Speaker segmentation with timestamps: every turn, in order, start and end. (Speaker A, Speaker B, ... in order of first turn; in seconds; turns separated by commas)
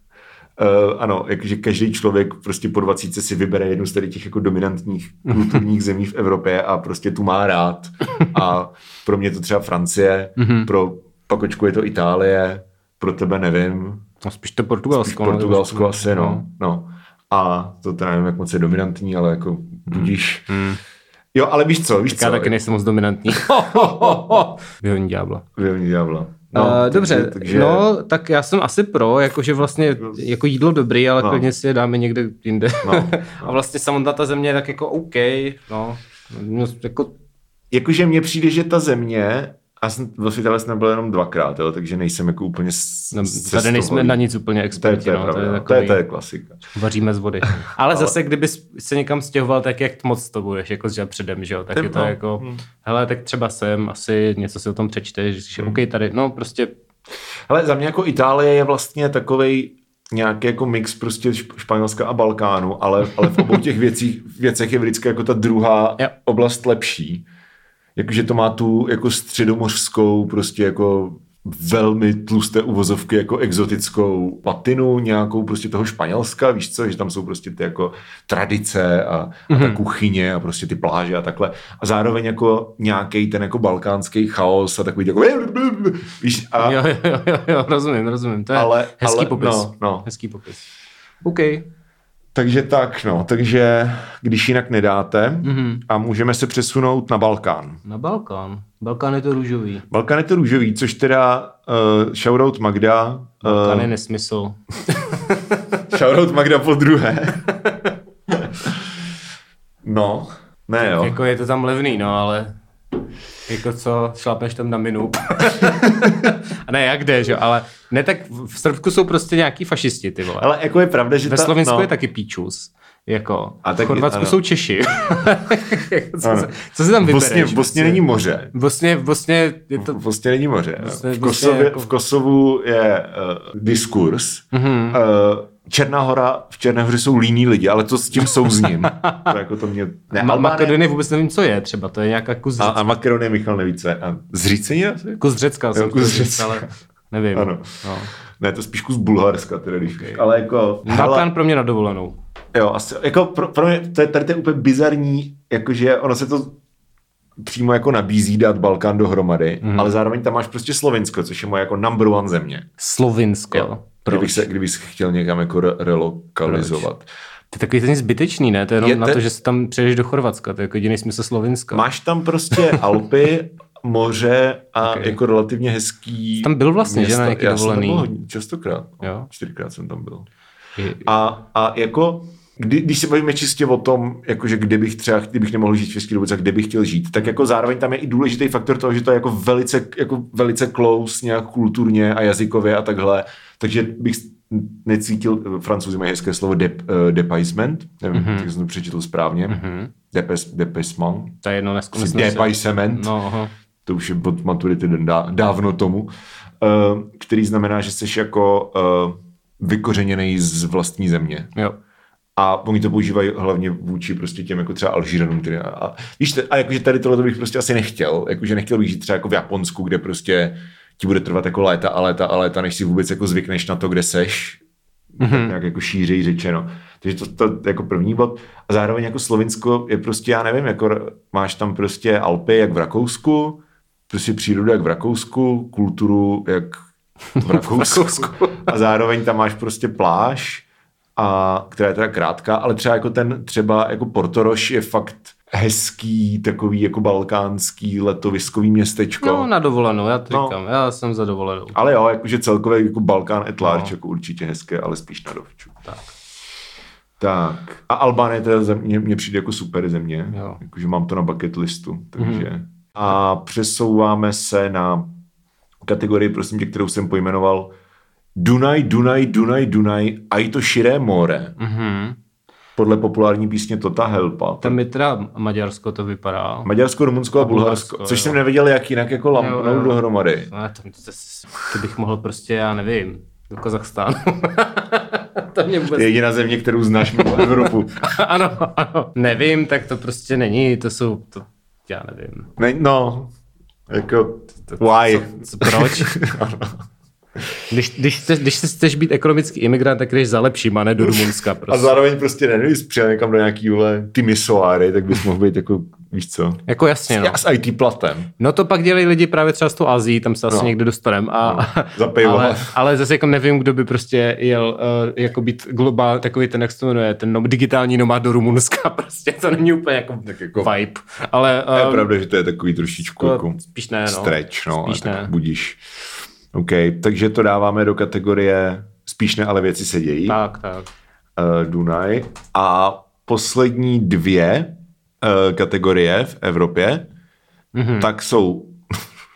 Speaker A: 0.6-14.1, Speaker B: 10.4-10.7, Speaker B: 14.2-16.4, Speaker A: 14.9-20.5, Speaker B: 19.9-20.8, Speaker A: 21.4-22.6, Speaker B: 22.1-25.4, Speaker A: 23.4-24.5, Speaker A: 25.6-27.9, Speaker B: 26.5-37.1, Speaker A: 31.2-31.5, Speaker A: 32.8-33.6, Speaker A: 37.7-44.2, Speaker B: 43.1-46.0, Speaker A: 44.7-46.6, Speaker B: 46.7-56.7, Speaker A: 47.5-48.1, Speaker A: 51.8-52.6, Speaker A: 57.5-67.2, Speaker A: 68.0-86.8, Speaker B: 79.5-79.8, Speaker B: 86.6-90.6, Speaker A: 88.5-90.1, Speaker B: 91.2-91.7, Speaker A: 92.3-97.8, Speaker B: 95.4-95.8, Speaker B: 97.8-99.9, Speaker A: 99.9-103.9, Speaker B: 103.4-105.8, Speaker A: 105.9-107.6, Speaker A: 108.3-108.9, Speaker A: 109.8-111.2, Speaker B: 110.8-112.5, Speaker B: 113.5-120.5, Speaker A: 115.8-116.3, Speaker A: 120.4-121.9, Speaker B: 121.2-130.0, Speaker A: 123.6-124.4, Speaker A: 126.2-128.5, Speaker A: 129.8-140.8, Speaker B: 130.8-131.9, Speaker B: 134.5-135.0, Speaker B: 138.2-139.3, Speaker B: 140.2-142.8, Speaker A: 142.6-146.7, Speaker B: 145.2-148.1, Speaker A: 147.3-151.3, Speaker B: 149.9-150.2, Speaker B: 150.8-152.2, Speaker A: 152.5-156.6, Speaker A: 157.4-162.7, Speaker B: 159.6-159.9, Speaker B: 162.8-164.5, Speaker A: 163.5-167.1, Speaker B: 166.5-166.9, Speaker B: 167.5-171.8, Speaker A: 168.8-169.2, Speaker A: 171.7-180.3, Speaker B: 174.8-175.2, Speaker B: 176.4-178.1, Speaker B: 179.0-179.3, Speaker B: 180.8-181.1, Speaker A: 181.0-201.3, Speaker B: 198.1-198.5, Speaker B: 199.5-199.9, Speaker B: 201.4-203.5, Speaker A: 201.9-203.1, Speaker A: 203.8-211.5, Speaker A: 212.4-224.6, Speaker A: 225.2-236.8, Speaker B: 225.2-225.5, Speaker A: 237.4-240.7, Speaker B: 237.4-238.5, Speaker A: 241.2-249.5, Speaker B: 249.2-251.8, Speaker A: 250.3-250.6, Speaker A: 251.7-255.8, Speaker B: 253.6-253.9, Speaker A: 257.2-265.1, Speaker B: 260.3-260.6, Speaker B: 262.2-262.5, Speaker A: 265.9-267.7, Speaker A: 268.4-271.6, Speaker B: 271.6-272.2, Speaker A: 272.8-274.8, Speaker B: 274.6-276.7, Speaker A: 276.6-280.5, Speaker B: 277.4-278.4, Speaker B: 279.3-286.1, Speaker A: 285.9-288.0, Speaker B: 287.2-292.5, Speaker A: 292.6-293.3, Speaker A: 293.9-296.8, Speaker B: 294.7-296.1, Speaker B: 297.7-301.9, Speaker A: 301.0-308.3, Speaker B: 306.7-307.4, Speaker B: 308.4-322.1, Speaker A: 311.4-312.7, Speaker A: 320.2-320.7, Speaker A: 321.7-325.8, Speaker B: 323.2-325.3, Speaker A: 326.5-330.4, Speaker B: 330.3-330.9, Speaker A: 331.4-337.1, Speaker B: 337.7-338.1, Speaker A: 338.0-338.8